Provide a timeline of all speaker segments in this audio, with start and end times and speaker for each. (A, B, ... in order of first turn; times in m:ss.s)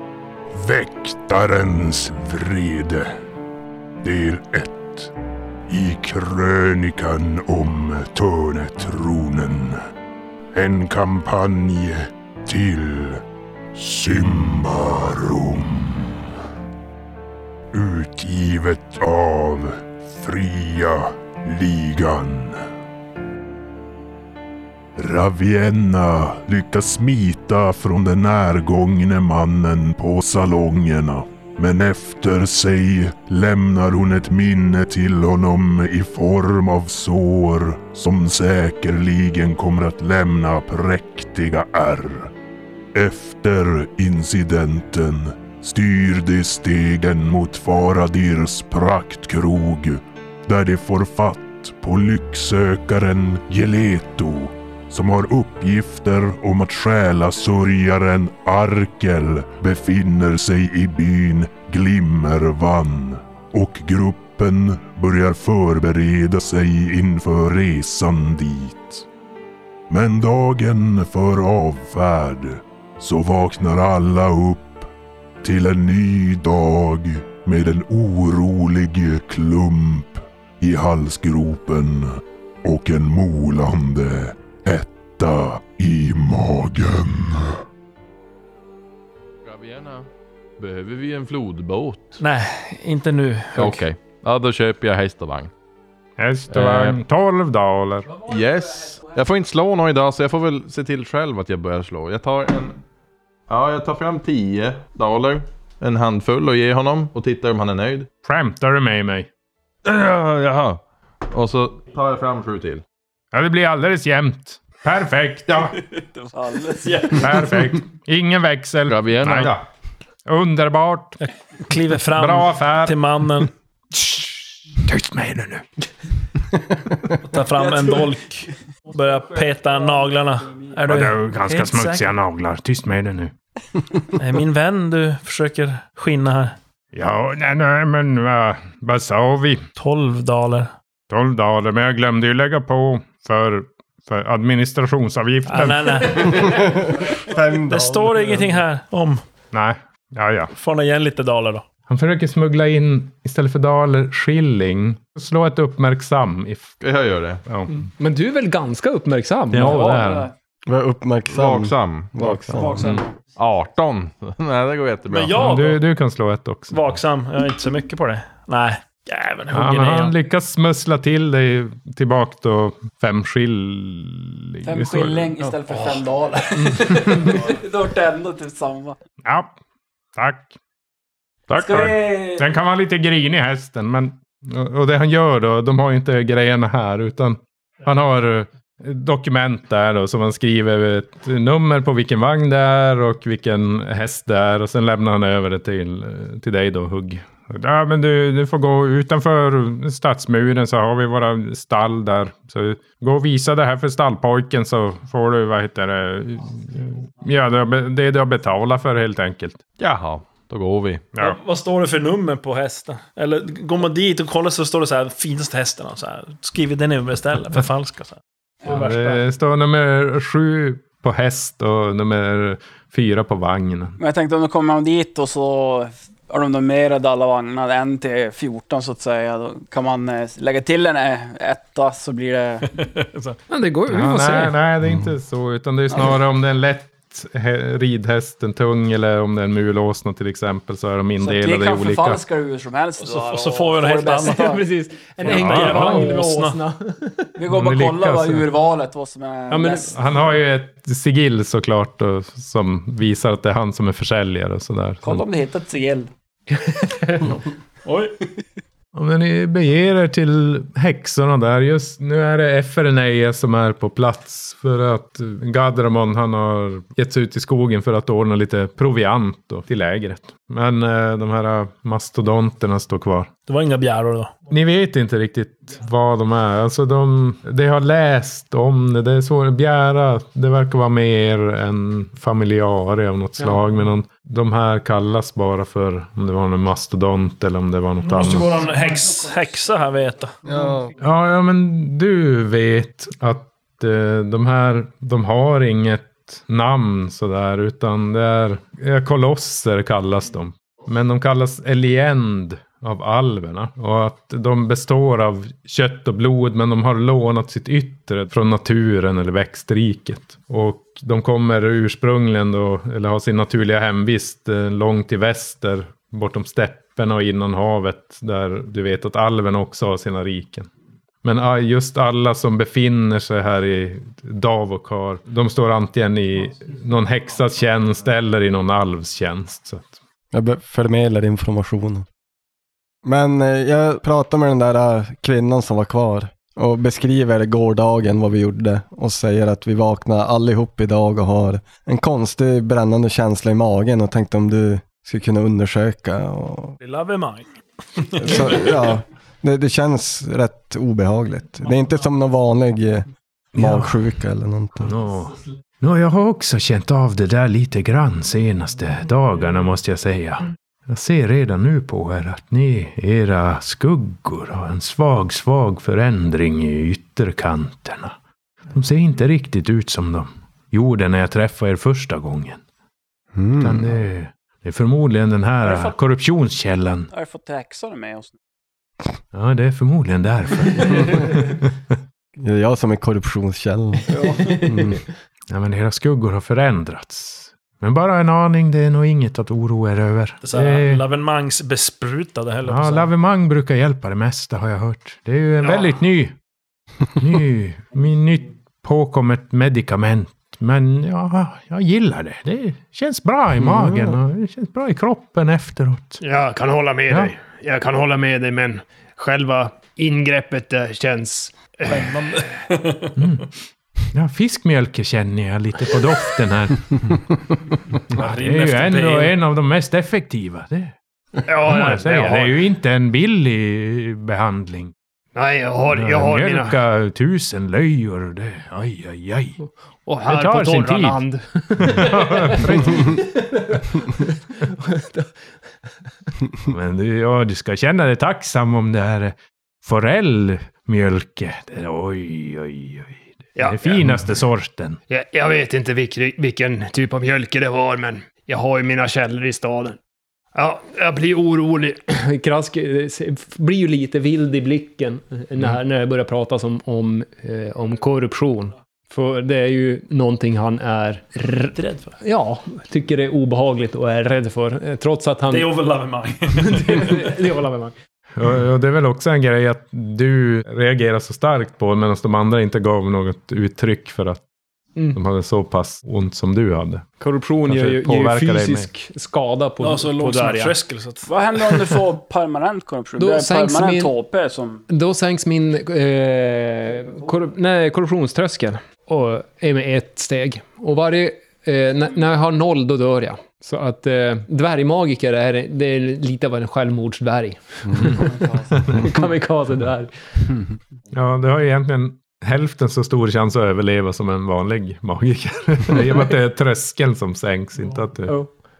0:00.5-0:03.1 A
0:04.0-0:05.1 A
0:05.7-0:09.8 A
0:10.5-0:13.2 A
0:13.7-0:16.2 A
0:17.7-0:22.6 A
0:25.0-0:42.3 A
0:42.9-1:09.0 A
1:09.9-1:14.9 A
1:15.4-1:27.6 A
1:29.4-1:32.2 B
1:32.2-1:33.8 C
1:33.5-1:35.5 B
1:36.2-1:38.2 D
1:36.5-1:37.0 B
1:38.2-1:42.8 B
1:43.5-1:48.1 B
1:48.2-1:49.3 D
1:49.8-1:52.8 B
1:53.3-1:55.8 D
1:56.1-1:57.4 E
1:56.8-1:57.4 C
1:57.1-1:59.6 D
1:58.9-1:59.6 B
2:00.3-2:01.2 D
2:01.6-2:03.5 C
2:02.2-2:03.0 D
2:03.9-2:05.6 D
2:07.2-2:12.1 C
2:10.8-2:13.3 D
2:14.1-2:16.5 C
2:16.9-2:19.6 D
2:19.8-2:20.7 C
2:21.1-2:26.4 D
2:25.5-2:27.0 C
2:26.4-2:28.6 F
2:27.6-2:29.2 C
2:29.5-2:30.5 D
2:30.5-2:31.6 C
2:31.9-2:36.7 D
2:36.8-2:37.4 B
2:37.5-2:37.8 D
2:38.0-2:39.9 G
2:39.5-2:40.3 D
2:39.6-2:40.3 E
2:40.7-2:42.8 F
2:41.3-2:42.8 B
2:42.6-2:43.0 C
2:42.6-2:43.0 E
2:43.4-2:45.4 B
2:45.1-2:45.8 C
2:45.3-2:46.8 D
2:46.7-2:50.1 C
2:49.5-2:55.3 D
2:54.6-2:59.0 E
2:59.2-2:59.5 D
3:00.1-3:00.5 D
3:01.5-3:02.0 B
3:01.6-3:02.4 E
3:01.9-3:29.6 D
3:29.8-3:31.1 B
3:31.2-3:39.2 C
3:38.6-3:44.0 D
3:44.0-3:52.7 E
3:52.8-3:53.4 C
3:53.5-3:54.5 G
3:53.9-4:02.2 D
3:55.9-3:56.2 E
4:01.2-4:04.6 E
4:03.0-4:04.6 C
4:04.1-4:07.4 G
4:05.2-4:06.6 C
4:05.3-4:06.1 D
4:07.4-4:10.0 E
4:07.5-4:08.5 D
4:09.5-4:09.8 G
4:09.5-4:15.2 D
4:15.0-4:16.1 E
4:17.8-4:18.2 C
4:18.9-4:33.3 D
4:33.5-4:34.3 C
4:34.5-4:48.6 D
4:48.0-4:50.3 C
4:50.4-4:50.9 F
4:51.0-5:20.7 D
5:21.2-5:30.0 D
5:30.3-5:32.0 F
5:33.0-5:46.8 F
5:46.8-5:48.8 C
5:48.2-5:54.9 F
5:53.6-5:54.0 D
5:54.8-6:08.1 D
6:08.7-6:12.6 D
6:13.3-6:14.0 F
6:13.6-6:17.1 D
6:15.6-6:16.0 E
6:17.1-6:18.4 E
6:19.3-6:21.7 D
6:22.4-6:25.0 F
6:24.1-6:24.6 E
6:25.5-6:31.0 D
6:30.4-6:33.1 C
6:32.6-6:36.3 D
6:37.2-6:46.2 D
6:46.2-6:52.5 H
6:51.9-6:53.1 C
6:53.2-6:53.5 D
6:54.1-6:57.3 D
6:57.9-7:00.9 D
6:58.1-6:59.3 C
7:01.4-7:02.6 H
7:01.6-7:04.9 D
7:05.3-7:06.8 H
7:05.9-7:09.6 D
7:10.1-7:11.5 H
7:10.3-7:13.2 D
7:11.9-7:15.3 G
7:16.6-7:25.0 D
7:23.6-7:24.2 H
7:25.1-7:30.0 H
7:30.5-7:32.0 H
7:32.1-7:45.7 G
7:41.7-7:42.1 C
7:45.5-7:47.3 C
7:46.6-7:47.9 G
7:48.4-7:54.4 D
7:55.1-7:57.1 D
7:57.2-8:00.7 G
7:57.6-7:58.9 D
7:59.8-8:01.3 C
8:01.2-8:04.8 E
8:03.2-8:04.1 G
8:04.9-8:20.4 G
8:18.2-8:18.6 E
8:18.7-8:19.0 D
8:21.1-8:28.4 D